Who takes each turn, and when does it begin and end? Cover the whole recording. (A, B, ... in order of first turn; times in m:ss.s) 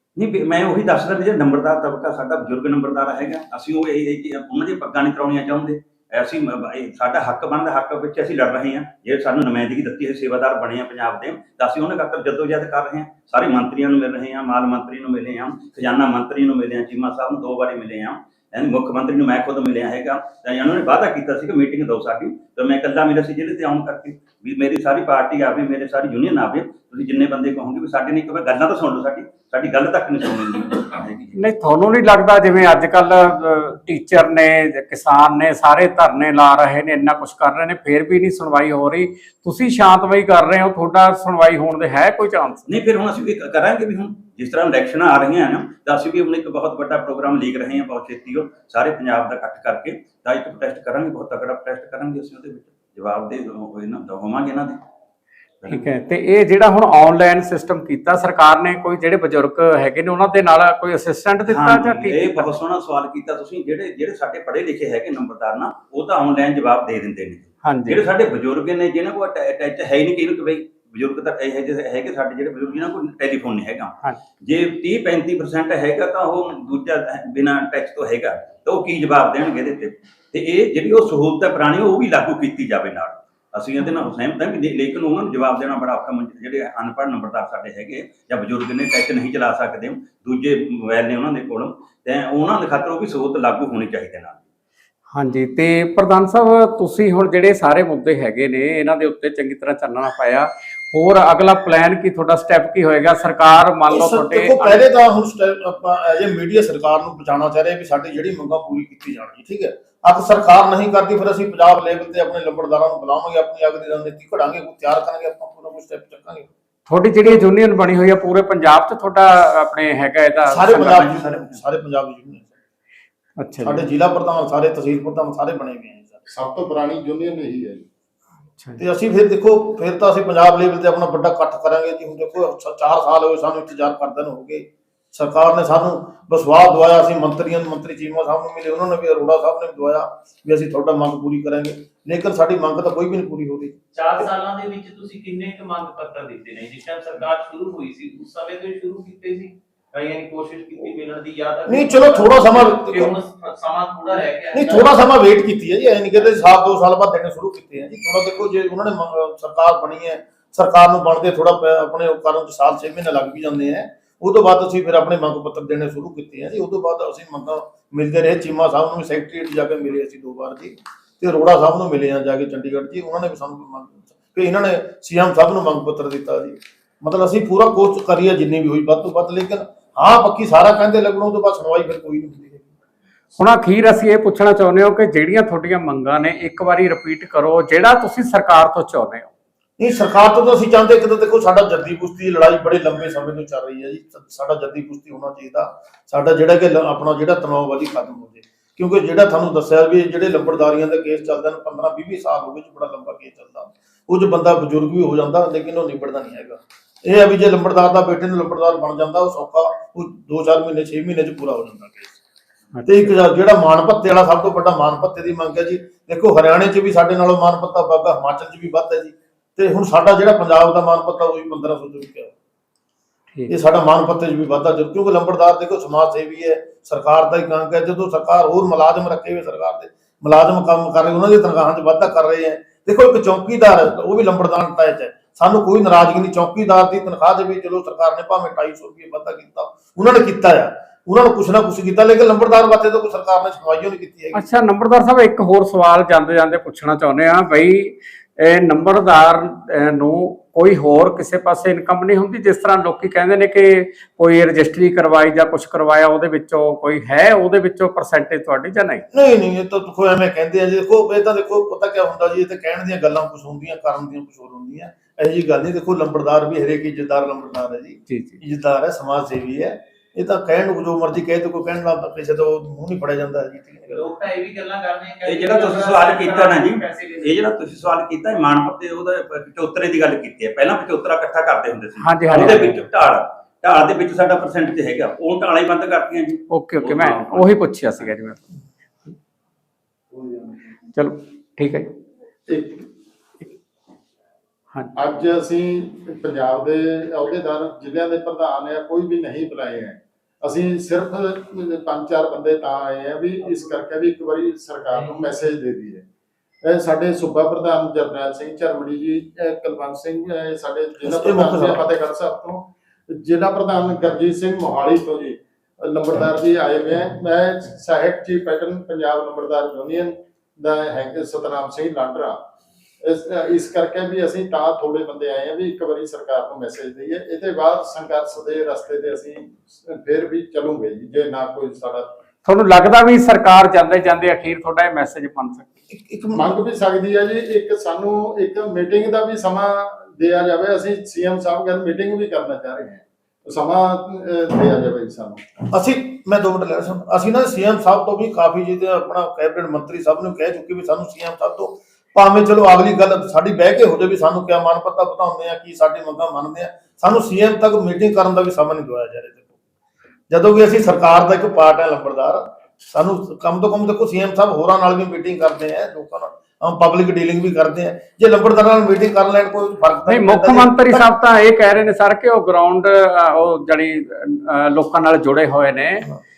0:00.2-0:31.4 A
0:31.4-0:42.7 B
0:42.7-0:54.8 A
0:55.6-0:55.9 A
0:55.7-1:02.5 B
1:01.5-1:34.4 A
1:07.6-1:08.0 B
1:35.1-1:44.8 B
1:43.9-1:56.5 C
1:56.9-2:01.6 B
2:00.5-2:02.6 C
2:03.4-2:03.8 B
2:03.6-2:06.2 C
2:06.3-2:07.8 D
2:08.8-2:23.8 C
2:24.0-2:35.1 E
2:31.7-2:33.2 C
2:34.5-3:02.7 C
3:03.4-3:09.3 B
3:09.8-3:32.2 C
3:32.7-3:33.2 B
3:32.8-3:42.3 C
3:43.5-4:04.4 C
4:04.3-4:19.0 B
4:19.1-4:34.0 C
4:28.1-4:28.4 B
4:33.9-4:37.4 E
4:35.2-4:48.0 A
4:42.0-4:42.8 B
4:46.5-4:48.6 B
4:50.9-4:51.9 B
4:52.5-4:52.9 D
4:55.0-5:06.0 D
5:06.6-5:22.4 D
5:11.0-5:11.8 C
5:23.0-5:32.2 D
5:32.4-5:35.8 B
5:35.9-5:36.5 C
5:36.4-5:45.4 D
5:45.7-5:59.5 C
6:00.3-6:11.0 C
6:10.1-6:16.1 B